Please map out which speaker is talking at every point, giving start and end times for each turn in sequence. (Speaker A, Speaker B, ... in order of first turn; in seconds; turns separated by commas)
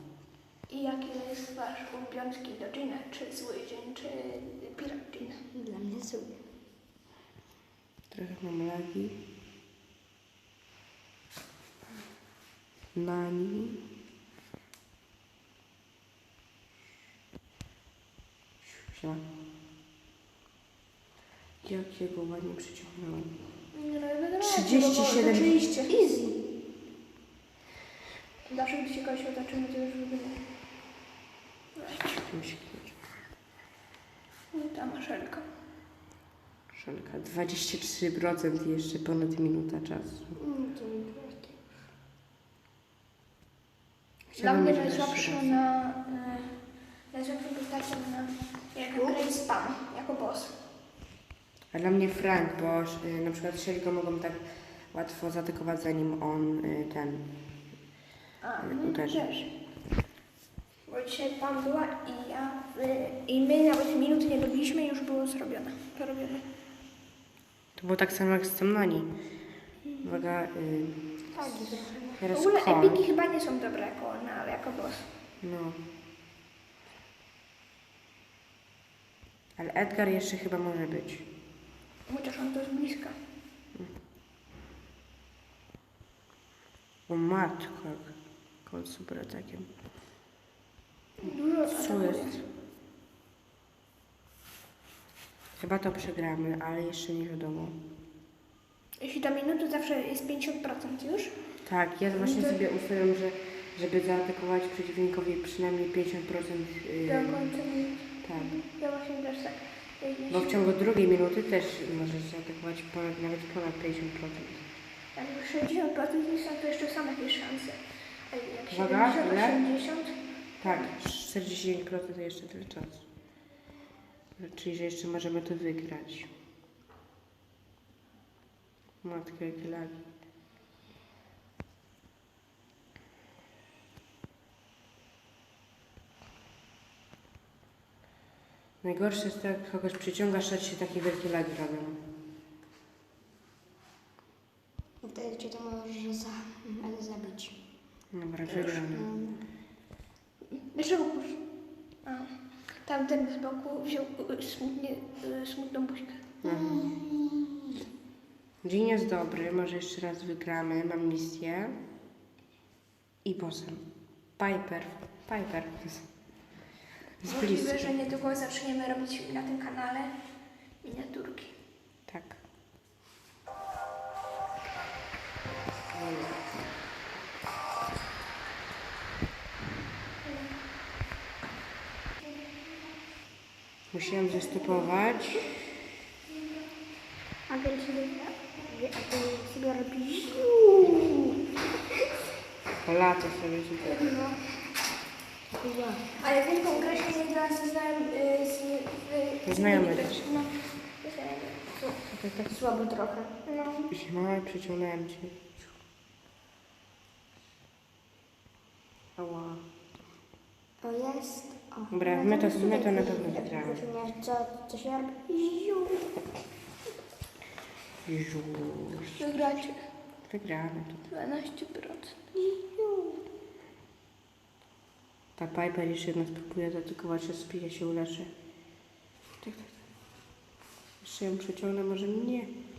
Speaker A: 0.7-5.4, Speaker B: 5.5-6.3, Speaker C: 8.1-9.2, Speaker C: 12.9-13.8, Speaker C: 18.9-19.2, Speaker C: 21.6-23.3, Speaker A: 23.7-25.9, Speaker C: 24.4-25.6, Speaker B: 25.9-26.4, Speaker A: 28.5-30.4, Speaker A: 31.8-32.2, Speaker C: 32.0-33.0, Speaker A: 34.5-35.5, Speaker C: 36.7-40.3, Speaker B: 40.4-41.6, Speaker C: 44.3-45.6, Speaker A: 44.4-46.6, Speaker A: 47.1-50.5, Speaker B: 48.9-49.2, Speaker C: 51.7-54.4, Speaker C: 54.9-57.3, Speaker A: 58.4-59.5, Speaker C: 58.6-59.2, Speaker A: 60.9-66.4, Speaker C: 67.8-69.1, Speaker C: 70.0-71.0, Speaker B: 71.3-72.2, Speaker C: 72.2-73.1, Speaker A: 72.3-75.1, Speaker C: 75.4-75.8, Speaker C: 79.6-81.2, Speaker A: 82.1-83.1, Speaker C: 87.1-88.1, Speaker C: 88.7-89.7, Speaker A: 91.2-92.4, Speaker C: 91.7-92.4, Speaker C: 95.6-97.8, Speaker A: 99.0-101.3, Speaker C: 101.7-107.4, Speaker A: 102.2-102.6, Speaker A: 107.0-110.7, Speaker C: 108.2-108.5, Speaker C: 110.3-114.6, Speaker A: 115.2-117.8, Speaker A: 118.3-120.9, Speaker C: 118.7-119.6, Speaker C: 120.6-123.0, Speaker C: 124.4-126.3, Speaker C: 129.0-129.9, Speaker C: 138.8-142.0, Speaker B: 145.0-147.6, Speaker C: 148.1-149.1, Speaker B: 148.6-149.4, Speaker A: 150.5-151.4, Speaker A: 152.0-152.3, Speaker A: 152.8-156.3, Speaker C: 156.4-156.9, Speaker B: 156.4-157.7, Speaker C: 158.6-161.7, Speaker C: 163.2-163.8, Speaker C: 164.4-166.1, Speaker C: 167.2-167.9, Speaker A: 167.2-170.1, Speaker A: 170.8-171.5, Speaker C: 172.1-172.4, Speaker C: 175.9-176.5, Speaker C: 183.9-185.5, Speaker B: 187.5-191.3, Speaker C: 192.8-194.0, Speaker B: 193.9-194.3, Speaker B: 195.5-196.1, Speaker A: 196.2-201.9, Speaker B: 196.7-197.1, Speaker C: 199.4-200.2, Speaker C: 202.1-202.5, Speaker B: 202.5-203.3, Speaker A: 203.4-203.9, Speaker C: 203.9-205.5, Speaker C: 209.2-209.6, Speaker B: 210.8-216.1, Speaker C: 211.9-213.8, Speaker C: 218.0-219.3, Speaker A: 219.2-219.8, Speaker C: 220.3-221.0, Speaker A: 221.1-222.2, Speaker B: 222.3-223.2, Speaker C: 225.4-228.3, Speaker C: 229.4-229.7, Speaker C: 231.0-232.5